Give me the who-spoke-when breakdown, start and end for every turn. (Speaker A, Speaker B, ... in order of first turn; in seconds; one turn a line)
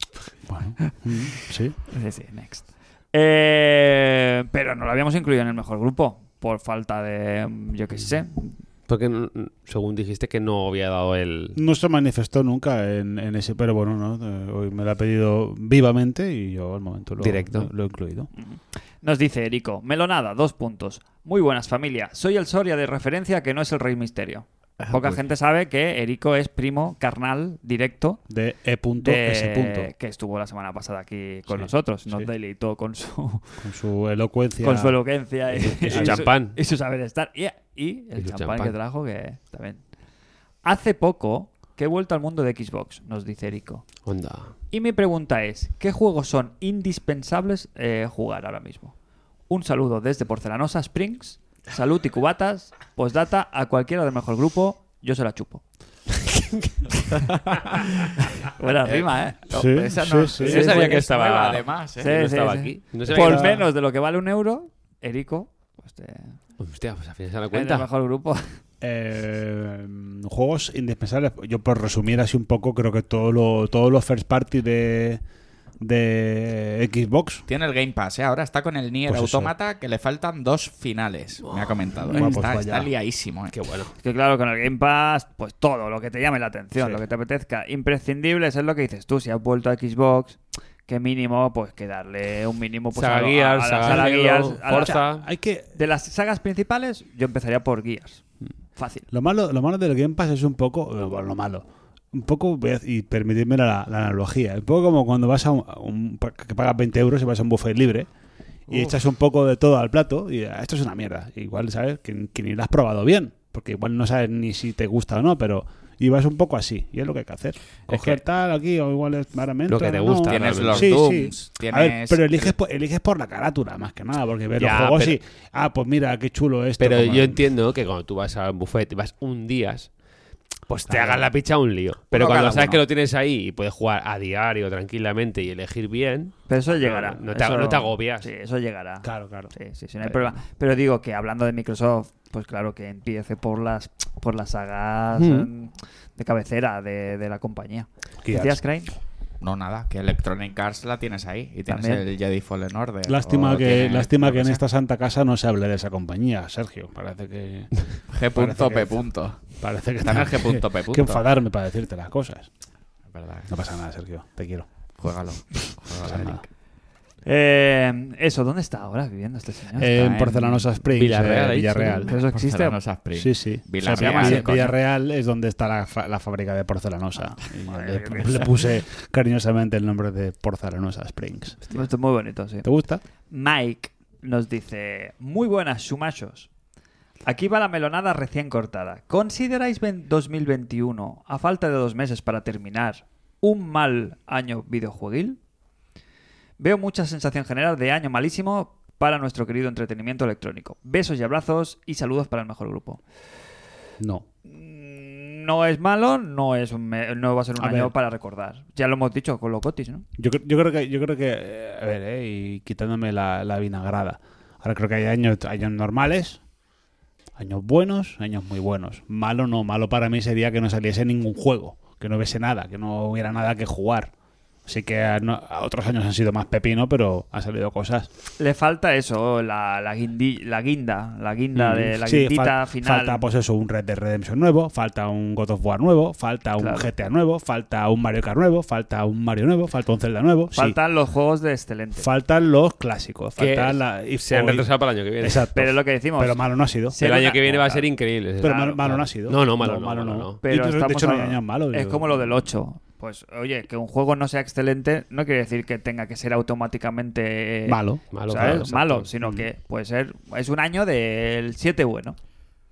Speaker A: 0.5-1.8
Speaker B: 1.9-8.6
Speaker C: 8.9-11.6
Speaker A: 11.6-18.3
Speaker C: 17.2-17.7
Speaker B: 18.4-28.2
Speaker D: 24.8-25.2
Speaker A: 28.3-29.9
Speaker B: 29.0-33.5
Speaker A: 31.5-32.3
Speaker A: 33.6-35.0
Speaker B: 34.6-39.8
Speaker C: 35.6-36.6
Speaker A: 35.8-36.2
Speaker C: 38.2-38.7
Speaker B: 40.6-43.9
Speaker C: 44.1-44.5
Speaker B: 44.7-49.0
Speaker B: 49.5-55.6
Speaker D: 57.3-57.9
Speaker B: 58.6-59.4
Speaker D: 58.8-62.1
Speaker A: 59.5-60.7
Speaker C: 60.4-63.6
Speaker B: 60.4-61.2
Speaker B: 62.0-66.4
Speaker A: 63.0-63.6
Speaker C: 66.6-67.9
Speaker B: 67.5-68.6
Speaker A: 68.8-75.2
Speaker A: 75.8-77.4
Speaker D: 77.5-83.5
Speaker A: 79.1-79.5
Speaker C: 81.5-81.8
Speaker A: 82.1-82.9
Speaker C: 83.5-83.9
Speaker B: 84.0-95.1
Speaker A: 86.8-87.0
Speaker C: 92.9-95.3
Speaker A: 93.8-94.1
Speaker A: 94.7-95.7
Speaker B: 95.7-98.2
Speaker B: 98.8-99.1
Speaker A: 99.1-108.1
Speaker A: 108.7-127.4
Speaker C: 119.7-121.0
Speaker D: 120.3-122.5
Speaker C: 124.6-125.2
Speaker C: 126.8-129.9
Speaker C: 130.7-138.3
Speaker A: 130.9-131.3
Speaker D: 132.1-132.8
Speaker B: 136.5-148.9
Speaker A: 139.0-139.5
Speaker C: 145.2-145.5
Speaker A: 148.2-148.6
Speaker D: 149.4-154.6
Speaker B: 151.7-152.0
Speaker A: 153.1-162.5
Speaker D: 158.1-159.4
Speaker D: 160.0-161.2
Speaker D: 163.1-163.5
Speaker A: 163.5-164.7
Speaker D: 165.0-166.5
Speaker A: 166.0-166.4
Speaker B: 167.3-170.0
Speaker A: 169.8-172.1
Speaker D: 169.8-170.7
Speaker C: 170.9-172.1
Speaker B: 172.1-172.8
Speaker D: 172.1-174.8
Speaker A: 173.2-181.6
Speaker B: 173.9-174.7
Speaker B: 177.7-178.6
Speaker B: 181.7-182.7
Speaker A: 182.6-183.0
Speaker B: 183.3-186.5
Speaker B: 187.2-195.4
Speaker B: 196.6-203.0
Speaker A: 204.0-204.2
Speaker B: 204.5-210.1
Speaker A: 207.6-207.9
Speaker A: 210.2-216.4
Speaker A: 217.4-224.1
Speaker A: 224.7-228.1
Speaker B: 228.4-233.2
Speaker A: 231.6-240.8
Speaker B: 236.6-236.9
Speaker B: 240.5-242.1
Speaker A: 242.0-244.7
Speaker C: 243.4-245.5
Speaker A: 245.2-247.0
Speaker B: 245.6-247.9
Speaker C: 247.0-250.4
Speaker A: 248.4-252.3
Speaker B: 250.4-262.2
Speaker A: 257.7-259.5
Speaker C: 258.1-259.1